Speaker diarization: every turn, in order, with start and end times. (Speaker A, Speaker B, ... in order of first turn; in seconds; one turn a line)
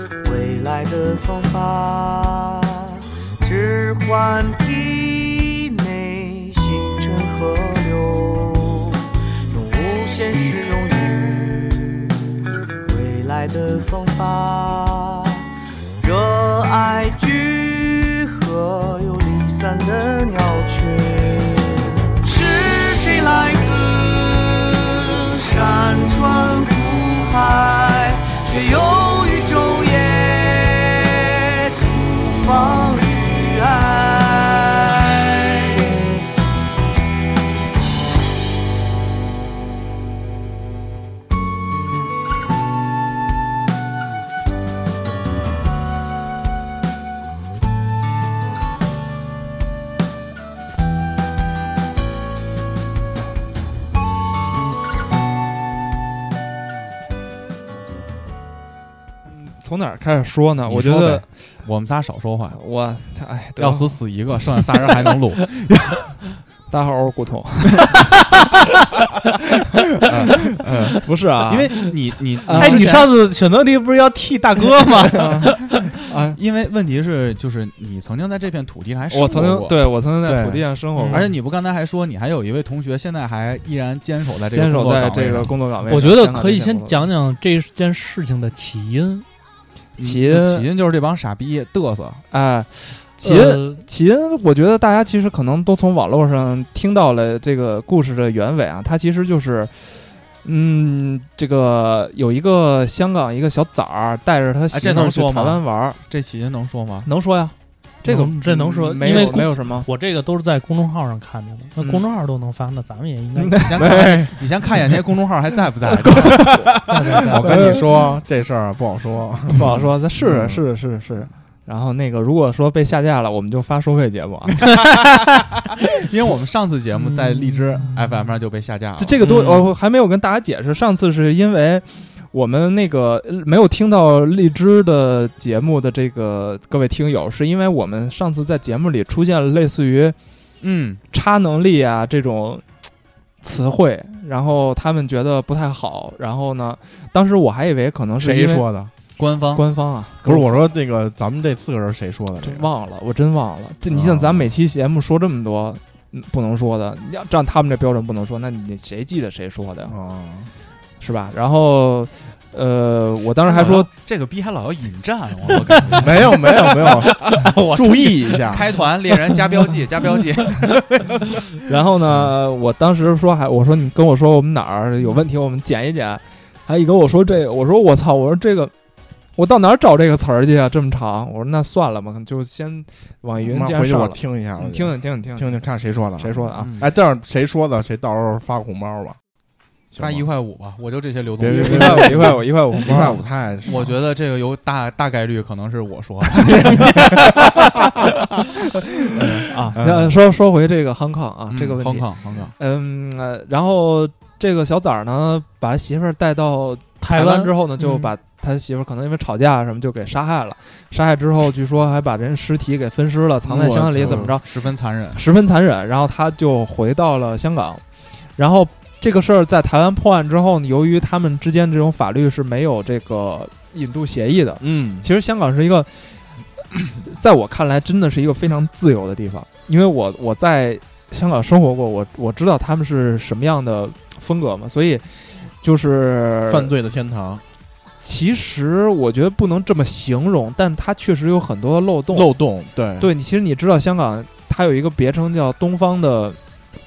Speaker A: 0.2-15.4
Speaker A: 16.0-36.1
Speaker B: 59.3-61.3
Speaker C: 60.6-62.6
Speaker B: 62.5-64.0
Speaker C: 63.6-65.8
Speaker B: 66.7-68.2
Speaker C: 70.0-73.2
Speaker B: 71.0-71.8
Speaker B: 72.5-72.9
Speaker D: 72.6-75.9
Speaker C: 75.0-75.8
Speaker B: 75.2-76.4
Speaker C: 76.3-79.8
Speaker B: 79.1-81.3
Speaker E: 80.2-80.6
Speaker D: 81.0-81.3
Speaker C: 81.1-85.5
Speaker B: 84.5-87.1
Speaker D: 85.9-89.2
Speaker C: 90.0-92.2
Speaker B: 90.0-90.7
Speaker B: 92.3-106.0
Speaker D: 93.2-93.8
Speaker C: 104.7-107.1
Speaker B: 107.0-109.9
Speaker D: 108.0-113.6
Speaker B: 111.8-112.1
Speaker B: 113.3-114.3
Speaker C: 113.6-117.2
Speaker E: 113.8-114.3
Speaker B: 116.1-116.7
Speaker D: 116.8-117.5
Speaker E: 117.3-120.6
Speaker B: 119.5-124.7
Speaker C: 124.7-129.6
Speaker D: 127.1-127.9
Speaker B: 129.0-140.2
Speaker C: 140.6-141.0
Speaker B: 141.1-142.7
Speaker B: 143.4-148.6
Speaker E: 148.2-148.9
Speaker C: 149.2-149.7
Speaker B: 149.5-150.6
Speaker E: 150.2-152.7
Speaker B: 152.4-159.9
Speaker E: 153.9-154.5
Speaker E: 159.9-160.5
Speaker B: 161.0-163.9
Speaker C: 163.5-167.5
Speaker E: 166.0-168.7
Speaker D: 167.4-168.3
Speaker C: 168.5-171.5
Speaker B: 171.7-178.7
Speaker B: 179.3-185.6
Speaker E: 183.4-189.2
Speaker B: 186.2-186.7
Speaker C: 186.6-186.8
Speaker E: 189.9-190.3
Speaker C: 190.0-197.7
Speaker E: 191.4-193.9
Speaker B: 191.4-193.2
Speaker C: 199.1-199.9
Speaker E: 199.2-200.1
Speaker B: 199.5-217.8
Speaker C: 201.5-202.5
Speaker D: 207.0-208.1
Speaker C: 213.4-215.2
Speaker E: 214.0-214.3
Speaker B: 218.3-226.2
Speaker E: 224.6-225.1
Speaker B: 226.8-236.7
Speaker E: 236.5-237.4
Speaker B: 238.0-242.3
Speaker E: 242.1-243.1
Speaker B: 243.0-246.4